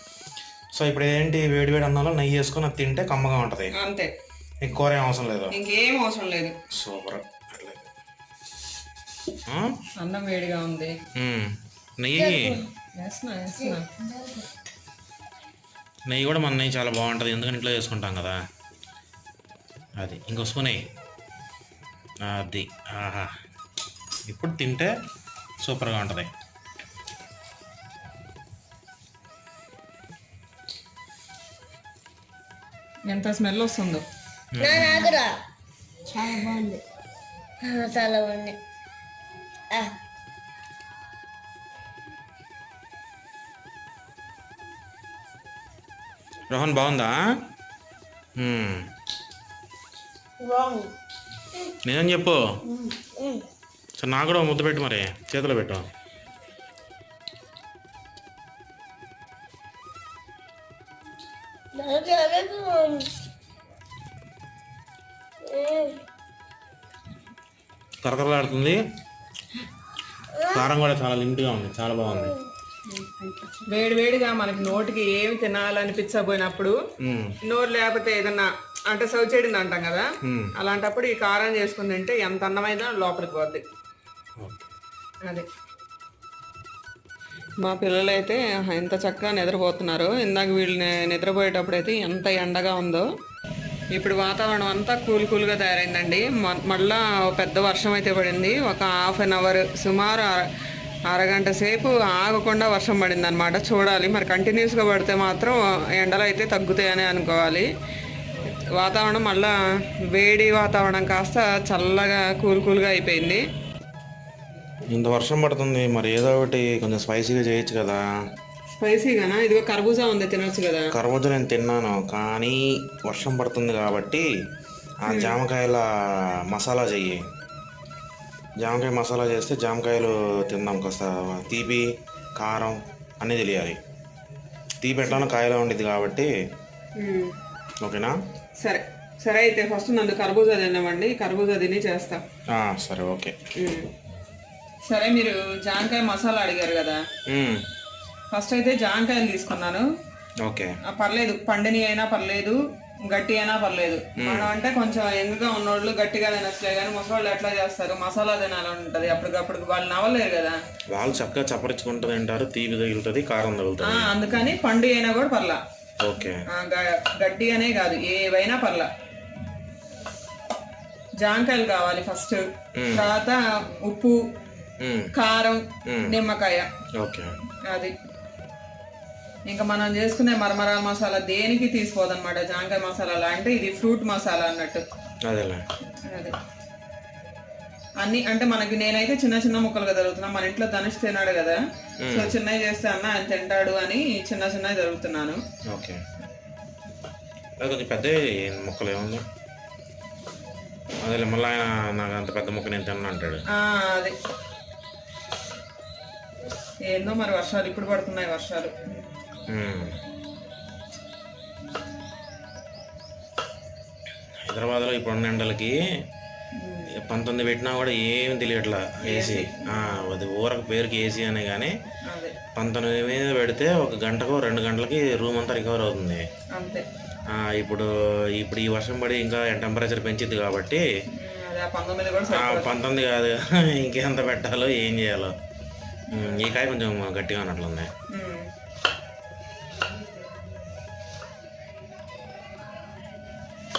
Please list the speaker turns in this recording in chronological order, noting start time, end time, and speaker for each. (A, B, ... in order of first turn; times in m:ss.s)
0:00.8-0:03.7 A
0:03.7-0:04.1 B
0:04.6-0:05.5 A
0:05.5-0:06.6 B
0:06.7-0:07.9 A
0:09.4-0:09.8 A
0:10.0-0:11.0 B
0:11.2-0:12.6 A
0:12.2-0:12.6 C
0:13.0-0:13.9 B
0:13.6-0:14.5 C
0:16.1-0:18.4 A
0:20.0-0:20.8 A
0:22.2-0:23.3 A
0:24.3-0:24.9 A
0:25.6-0:26.3 A
0:33.1-0:34.0 B
0:34.5-0:35.1 A
0:34.6-0:35.3 C
0:36.1-0:36.8 C
0:37.6-0:38.6 C
0:46.5-0:47.2 A
0:48.4-0:48.9 A
0:50.4-0:50.9 C
0:51.8-0:52.4 A
0:52.7-0:53.4 C
0:54.0-0:55.9 A
1:01.7-1:03.1 C
1:05.4-1:06.0 C
1:08.0-1:08.8 A
1:10.5-1:12.3 A
1:12.9-1:16.8 B
1:17.0-1:17.4 A
1:17.4-1:23.6 B
1:20.2-1:20.5 A
1:24.4-1:24.7 A
1:27.6-1:33.1 B
1:33.9-1:40.5 B
1:41.1-1:47.7 B
1:48.4-1:53.4 B
1:54.9-1:58.2 A
1:58.7-2:00.9 B
2:00.9-2:04.3 A
2:05.0-2:07.2 A
2:05.1-2:05.4 B
2:08.6-2:13.8 A
2:14.8-2:16.3 A
2:17.0-2:17.3 B
2:17.8-2:18.2 A
2:18.6-2:22.2 B
2:22.5-2:23.4 A
2:23.6-2:23.9 B
2:24.9-2:27.0 B
2:27.3-2:27.6 A
2:28.3-2:29.9 B
2:30.4-2:30.8 A
2:30.8-2:40.6 B
2:34.2-2:34.5 A
2:40.9-2:44.1 A
2:43.8-2:45.6 B
2:46.0-2:46.4 A
2:46.5-2:48.9 B
2:51.2-2:54.2 B
2:52.8-2:53.1 A
2:54.8-2:55.1 A
2:55.1-2:56.7 B
2:55.8-2:56.2 A
2:57.0-2:57.3 A
2:57.7-2:57.9 B
2:59.5-3:04.8 B
3:05.2-3:05.6 A
3:06.1-3:06.4 B
3:08.0-3:11.6 B
3:12.0-3:12.4 A
3:12.1-3:15.4 B
3:15.7-3:16.0 A
3:17.6-3:19.2 A
3:21.0-3:23.4 A
3:23.5-3:24.2 B
3:26.8-3:29.1 B
3:29.5-3:30.0 A
3:34.4-3:35.8 A
3:36.6-3:36.9 B
3:36.9-3:41.8 A
3:39.0-3:39.9 B
3:42.0-3:42.4 B
3:42.5-3:46.2 A
3:46.5-3:46.8 B
3:47.3-3:50.8 A
3:51.2-3:52.8 B
3:52.3-3:55.4 A
3:56.1-3:57.9 A
3:58.1-3:58.5 B